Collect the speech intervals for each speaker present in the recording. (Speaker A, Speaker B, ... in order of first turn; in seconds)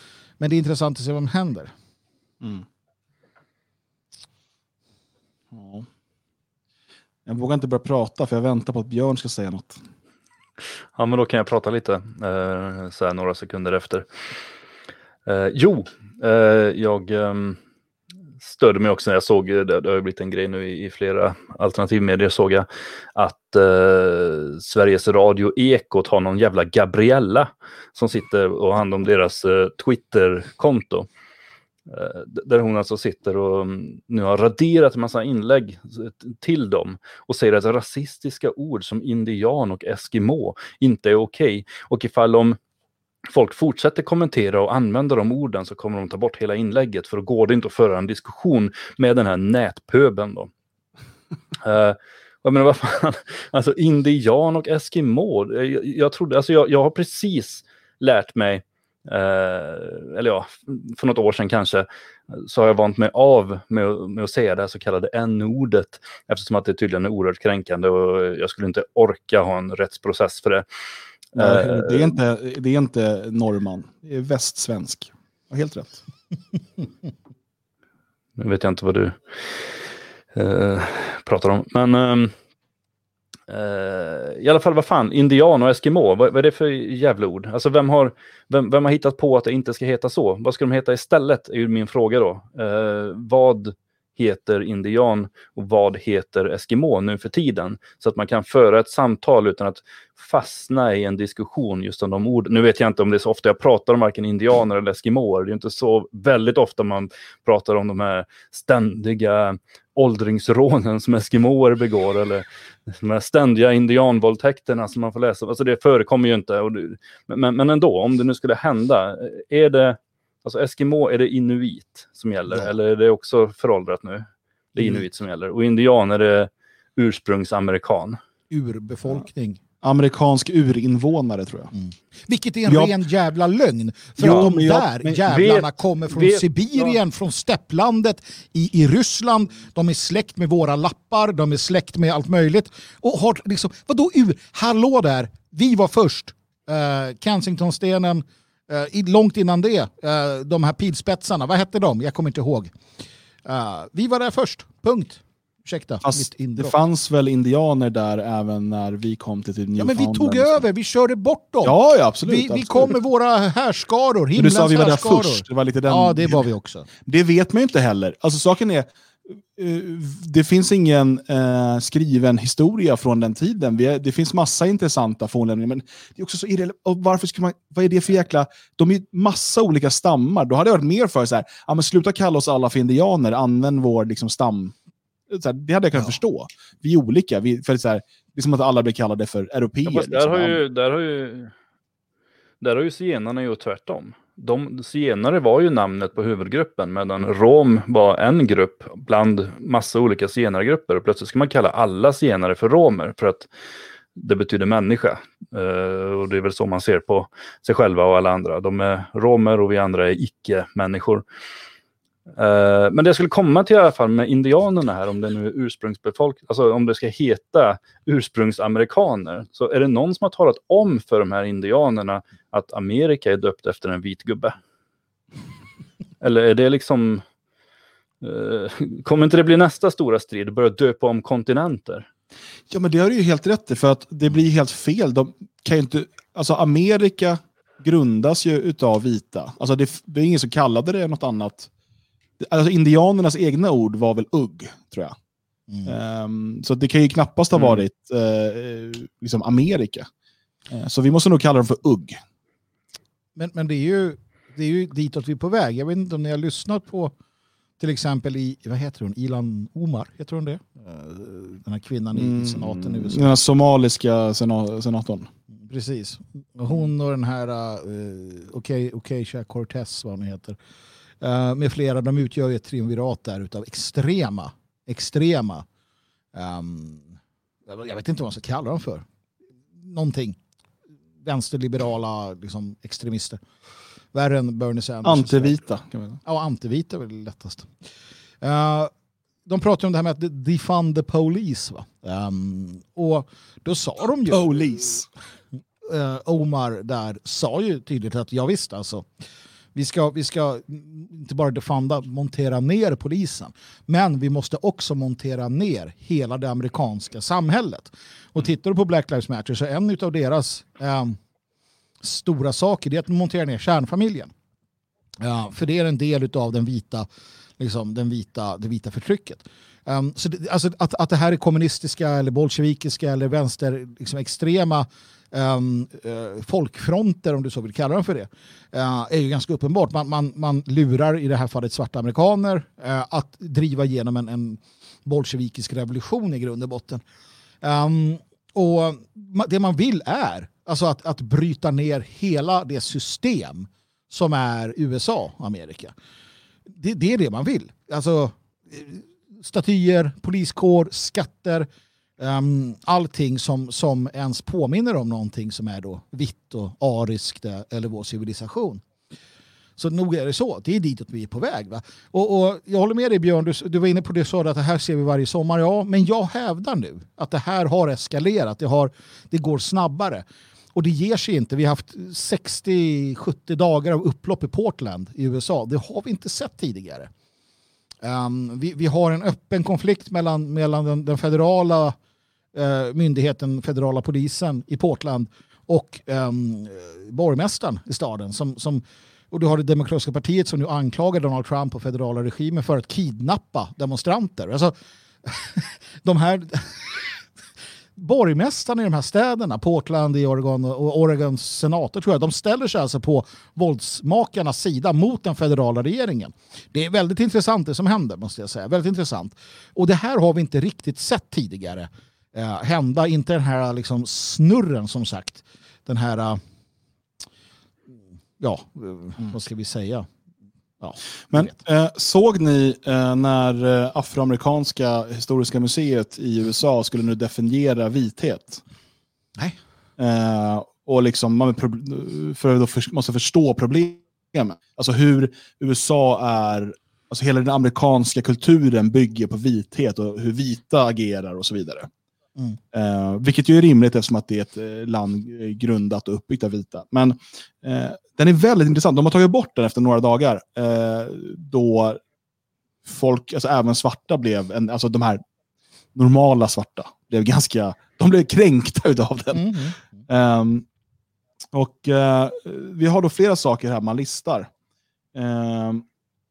Speaker A: 0.4-1.7, 128.5-129.6, 131.7-152.8, 153.4-156.8, 159.8-166.9, 245.7-245.9, 253.3-257.1, 257.8-263.3, 265.7-270.6, 271.2-275.6, 276.3-279.0, 279.8-280.4, 281.2-283.4, 284.1-285.6, 286.2-287.7, 288.4-288.9, 289.4-294.6, 295.8-299.1, 299.7-311.2, 312.0-314.3, 315.2-317.1, 317.6-337.0, 337.6-345.9, 346.7-351.7, 352.2-358.8, 359.8-377.1, 378.0-381.9, 382.5-397.1, 397.9-416.4, 418.4-420.1, 420.8-421.6, 459.3-459.8
Speaker B: 5.5-5.9, 7.2-9.8, 71.3-76.0, 129.8-131.7, 132.7-132.9, 134.2-135.2, 156.0-160.6, 161.6-162.9, 164.3-166.4, 167.0-184.8, 185.3-190.6, 232.7-241.7, 242.4-245.1, 245.8-250.1, 250.7-252.2, 262.1-265.3, 285.0-286.2, 294.3-295.1, 421.3-428.6, 430.0-441.9, 442.7-452.0, 452.8-455.2, 455.9-460.6, 461.5-464.5, 465.1-465.8
Speaker C: 10.9-14.1, 15.2-17.6, 18.4-31.1, 31.9-42.6, 43.3-50.5, 51.6-70.6, 71.3-72.1, 78.4-79.7, 80.3-82.3, 83.5-128.2, 135.2-136.8, 189.8-191.5, 192.6-203.5, 204.2-211.2, 212.3-224.6, 226.2-227.2, 228.2-232.1